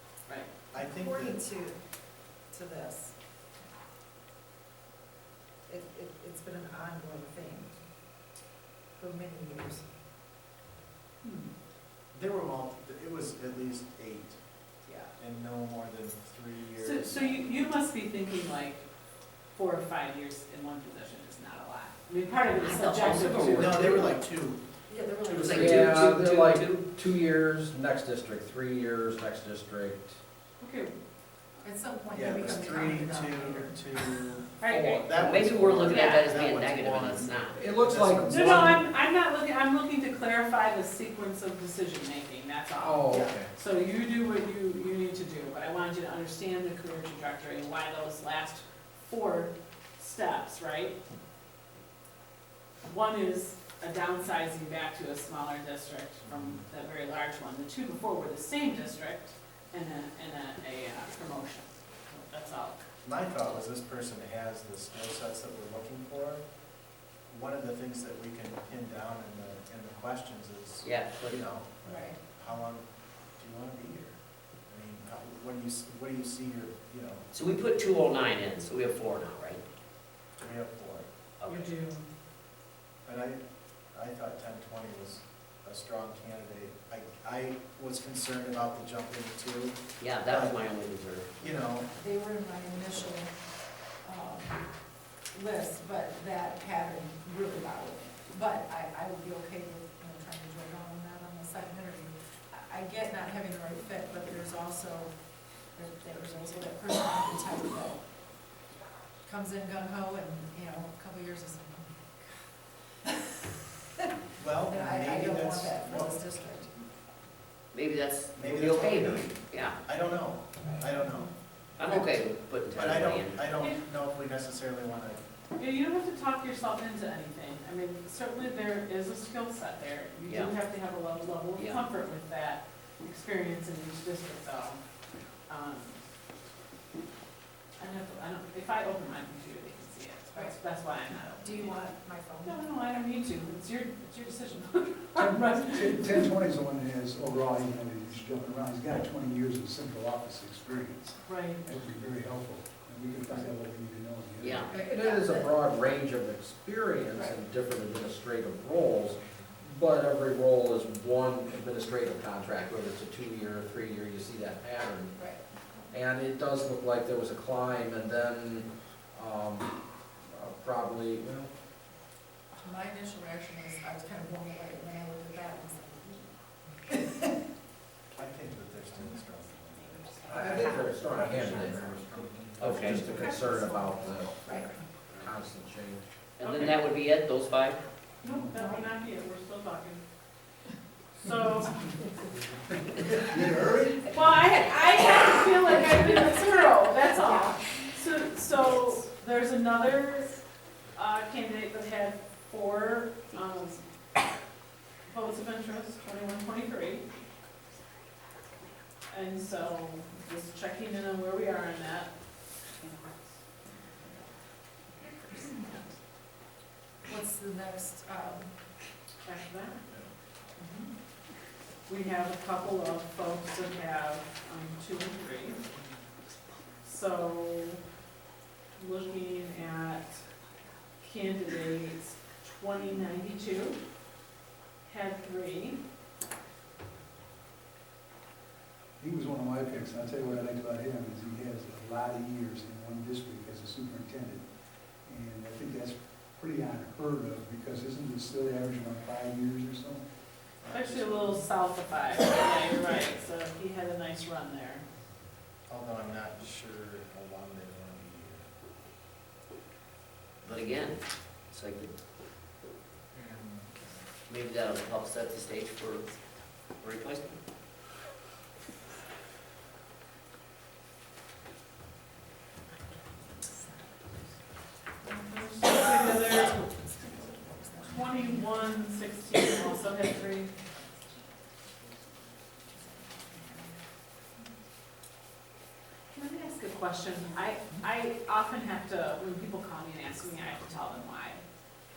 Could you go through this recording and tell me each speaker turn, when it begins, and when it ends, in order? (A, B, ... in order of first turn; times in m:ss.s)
0:00.7-0:01.4 A
0:00.8-0:01.7 B
0:02.5-0:03.1 B
0:05.7-0:07.7 B
0:09.0-0:09.8 B
0:11.2-0:11.5 C
0:12.1-0:14.4 A
0:15.2-0:17.3 A
0:16.8-0:18.8 C
0:19.5-0:24.0 C
0:22.6-0:24.2 D
0:23.5-0:24.6 A
0:24.9-0:26.1 B
0:25.2-0:26.0 A
0:25.3-0:26.8 D
0:25.5-0:30.2 E
0:30.6-0:30.9 C
0:31.6-0:34.0 B
0:32.1-0:38.8 A
0:34.6-0:35.0 C
0:34.7-0:35.1 E
0:35.2-0:37.6 D
0:35.9-0:36.2 C
0:37.5-0:38.8 E
0:38.3-0:51.0 C
0:42.8-0:43.5 E
0:52.8-1:02.8 C
0:56.2-0:56.6 A
1:03.0-1:06.4 A
1:07.3-1:12.8 A
1:10.8-1:11.4 D
1:11.8-1:12.2 B
1:13.4-1:17.2 A
1:17.3-1:19.6 D
1:20.4-1:21.1 A
1:21.4-1:21.7 D
1:21.5-1:22.0 C
1:23.0-1:23.4 A
1:23.9-1:30.6 A
1:30.0-1:31.4 D
1:31.4-1:31.9 A
1:31.4-1:33.3 B
1:34.0-1:34.6 B
1:35.3-1:45.1 B
1:45.7-1:48.0 B
1:49.2-1:52.3 B
1:53.0-1:53.4 B
1:54.4-1:56.4 A
1:54.6-1:56.7 B
1:57.7-1:59.8 D
1:58.4-2:01.3 A
2:00.6-2:01.2 B
2:01.8-2:03.4 D
2:02.7-2:05.2 A
2:05.6-2:14.8 C
2:10.2-2:10.5 D
2:11.6-2:11.8 D
2:15.5-2:16.0 C
2:17.8-2:21.8 C
2:21.4-2:22.6 B
2:22.4-2:26.3 C
2:25.2-2:34.7 F
2:31.2-2:31.6 C
2:34.4-2:34.7 D
2:34.7-2:35.5 B
2:34.7-2:45.2 E
2:37.1-2:37.4 B
2:45.2-2:45.8 B
2:45.9-2:49.7 E
2:50.3-2:51.5 E
2:52.6-2:56.3 B
2:56.9-2:57.4 B
2:58.2-3:03.2 A
2:59.8-3:00.8 C
3:00.3-3:04.4 E
3:02.6-3:03.1 D
3:03.1-3:04.2 C
3:04.4-3:04.7 B
3:05.2-3:06.0 E
3:06.4-3:07.8 D
3:06.4-3:06.8 C
3:08.2-3:10.0 C
3:11.2-3:11.9 C
3:12.9-3:14.2 F
3:14.1-3:20.3 C
3:15.6-3:17.9 B
3:18.6-3:18.9 B
3:20.9-3:23.8 C
3:25.1-3:27.0 C
3:29.1-3:32.1 C
3:32.7-3:33.2 C
3:35.3-3:35.8 C
3:37.0-3:38.5 B
3:39.2-3:39.8 C
3:40.6-3:40.9 C
3:41.9-3:45.6 C
3:46.8-3:47.8 C
3:48.8-3:50.2 C
3:51.0-3:53.8 C
3:54.8-3:55.8 C
3:59.0-4:04.5 F
4:05.0-4:10.0 F
4:10.6-4:11.4 A
4:10.7-4:14.8 C
4:15.7-4:18.5 A
4:20.4-4:21.0 D
4:21.5-4:21.9 D
4:23.1-4:23.7 A
4:24.3-4:26.1 D
4:26.8-4:27.4 D
4:33.2-4:34.4 B
4:35.0-4:36.6 C
4:35.6-4:41.4 B
4:37.8-4:40.5 C
4:42.7-4:43.8 B
4:46.1-4:51.4 C